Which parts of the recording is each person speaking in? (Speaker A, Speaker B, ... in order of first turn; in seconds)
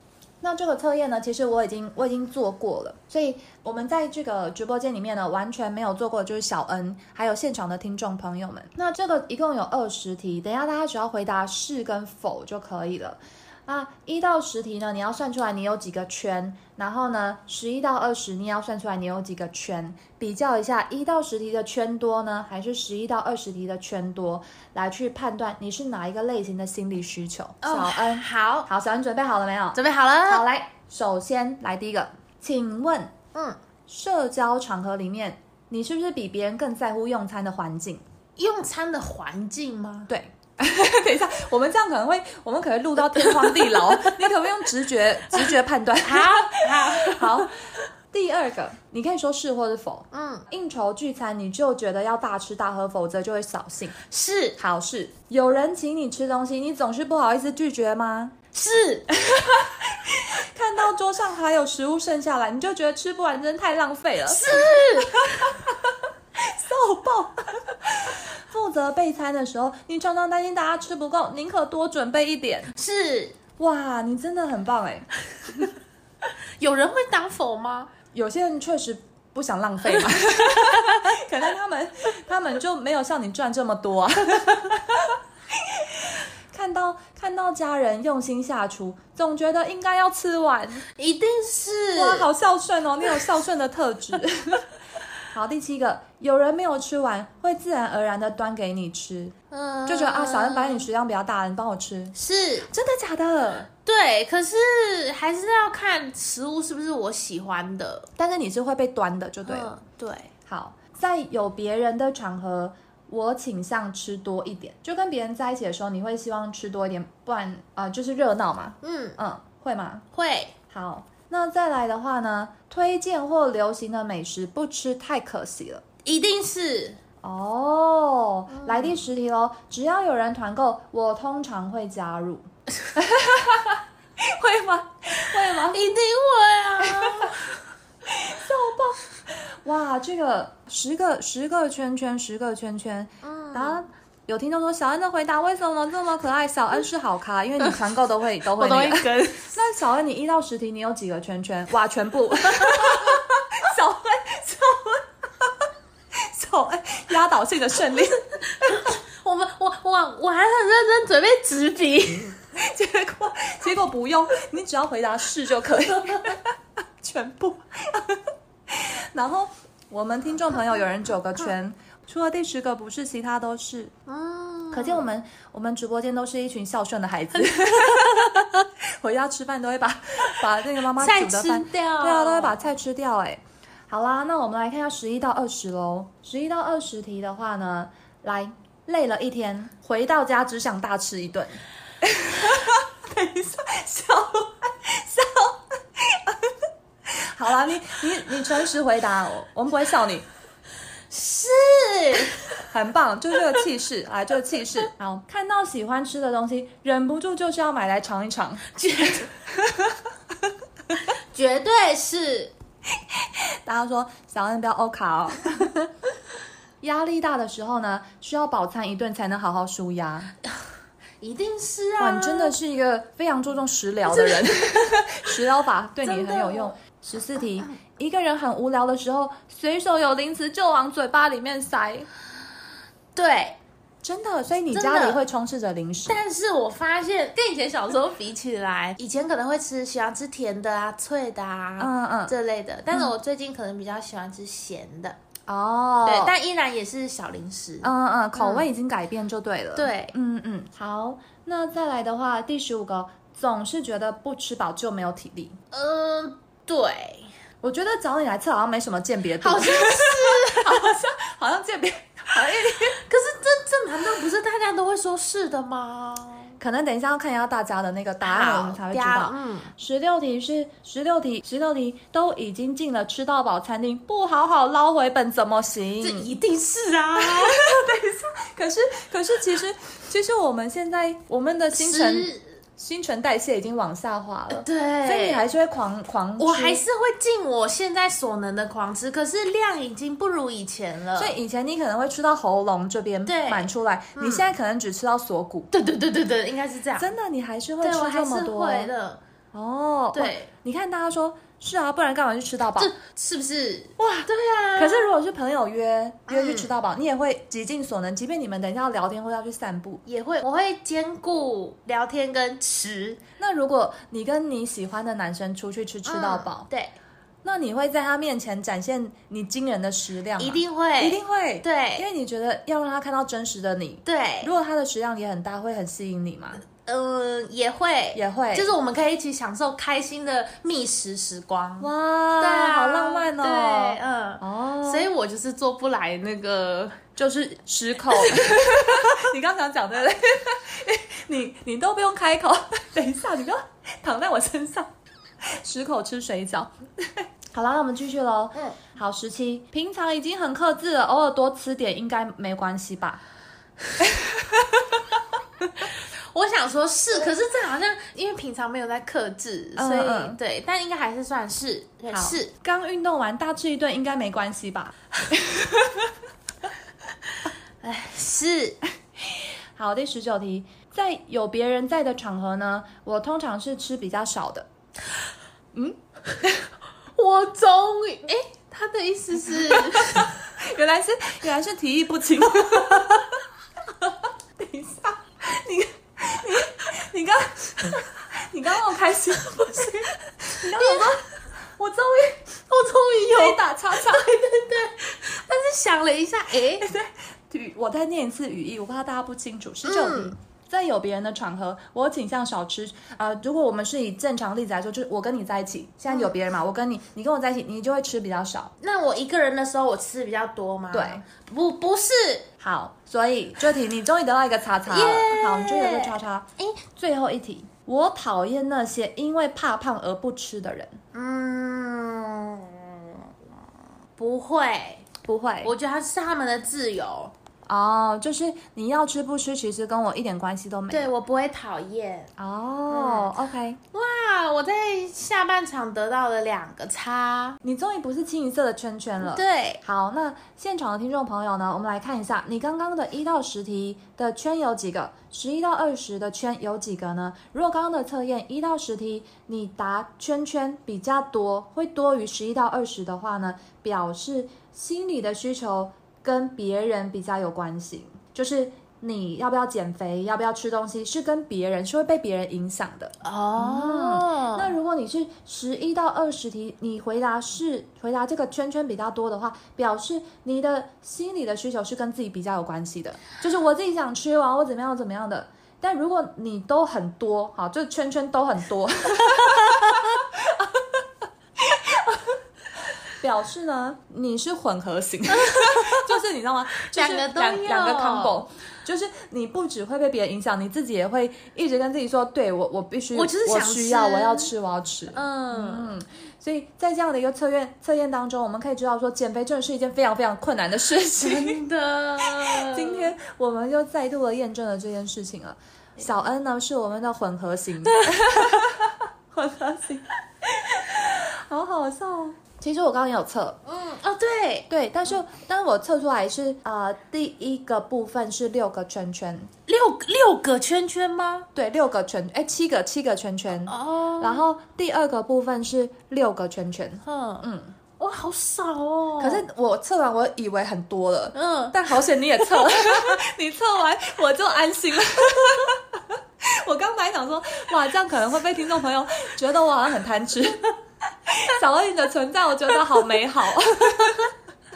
Speaker A: 0.4-33.1, 33.9-38.0, 40.1-47.6, 48.1-54.0, 54.6-58.4, 59.1-72.7, 73.6-75.7, 78.1-90.9, 92.0-94.7, 95.3-99.3, 99.9-102.2, 102.7-103.7, 108.2-109.7, 110.5-120.0, 120.7-125.8, 127.2-135.8, 136.9-137.3, 138.1-155.5, 156.2-158.3, 162.6-166.5, 167.0-173.9, 174.7-196.4, 197.1-200.3, 202.7-208.7, 209.5-210.0, 213.7-215.8, 216.8-220.3, 222.0-232.1, 234.0-236.2, 241.8-242.3, 245.5-246.3, 247.8-255.6, 257.6-263.0, 266.6-276.3, 277.2-286.8, 291.2-295.7, 297.0-298.9, 299.5-302.9, 304.0-310.0, 313.4-316.7, 317.4-326.6, 328.1-328.7, 331.8-335.1, 337.2-344.9, 345.4-353.2, 354.0-354.9, 359.8-360.4, 362.1-366.1, 369.3-374.7, 375.7-376.7, 379.7-383.4, 384.0-392.4, 393.2-394.4, 396.8-408.7, 410.9-411.2, 412.6-421.0, 425.2-425.7, 427.7-431.1, 432.4-433.8, 437.6-480.9, 481.6-482.4, 483.1-501.6, 502.2-510.1, 510.7-513.6, 514.7-519.5, 521.5-527.7, 529.2-540.7, 541.3-544.3
Speaker B: 27.6-28.7, 29.8-30.4, 38.4-40.1, 43.0-44.2, 45.3-47.6, 50.1-50.5, 54.1-54.6, 58.5-59.1, 64.3-65.5, 72.8-73.4, 76.6-77.9, 79.9-81.1, 91.0-92.3, 99.5-100.9, 102.2-102.7, 103.9-108.1, 109.4-110.3, 118.8-119.2, 120.1-120.5, 126.0-127.0, 128.5-129.0, 135.4-137.6, 143.2-143.8, 148.6-149.6, 152.6-153.1, 158.6-162.4, 166.1-166.3, 174.1-175.1, 177.5-178.6, 181.0-182.6, 201.1-202.6, 208.7-209.3, 211.3-212.5, 221.2-222.6, 224.1-225.0, 226.0-226.7, 233.2-233.6, 234.7-235.2, 236.1-245.2, 246.1-248.7, 249.8-250.1, 255.7-257.3, 259.4-261.0, 263.0-266.6, 268.2-269.7, 276.0-277.8, 281.7-282.5, 284.5-285.4, 286.4-291.4, 293.3-294.5, 295.7-297.1, 297.8-299.2, 300.1-300.5, 302.8-305.1, 306.3-306.7, 310.1-313.2, 316.1-316.9, 320.4-322.1, 324.1-324.5, 326.7-337.0, 338.2-338.5, 356.2-362.5, 367.8-368.8, 377.1-380.4, 382.7-382.9, 389.4-391.2, 392.7-396.9, 399.8-400.3, 408.8-412.5, 414.9-416.7, 421.1-423.3, 424.2-425.1, 425.6-427.3, 430.9-432.3, 432.9-433.3, 433.9-437.6, 439.2-439.8, 463.2-464.7, 479.4-480.1, 485.3-486.2, 486.8-488.4, 493.1-494.5, 495.1-496.0, 501.2-503.1, 507.8-508.6, 513.6-514.7, 519.7-521.5, 523.7-524.5, 527.0-527.5, 528.0-529.4, 531.3-533.2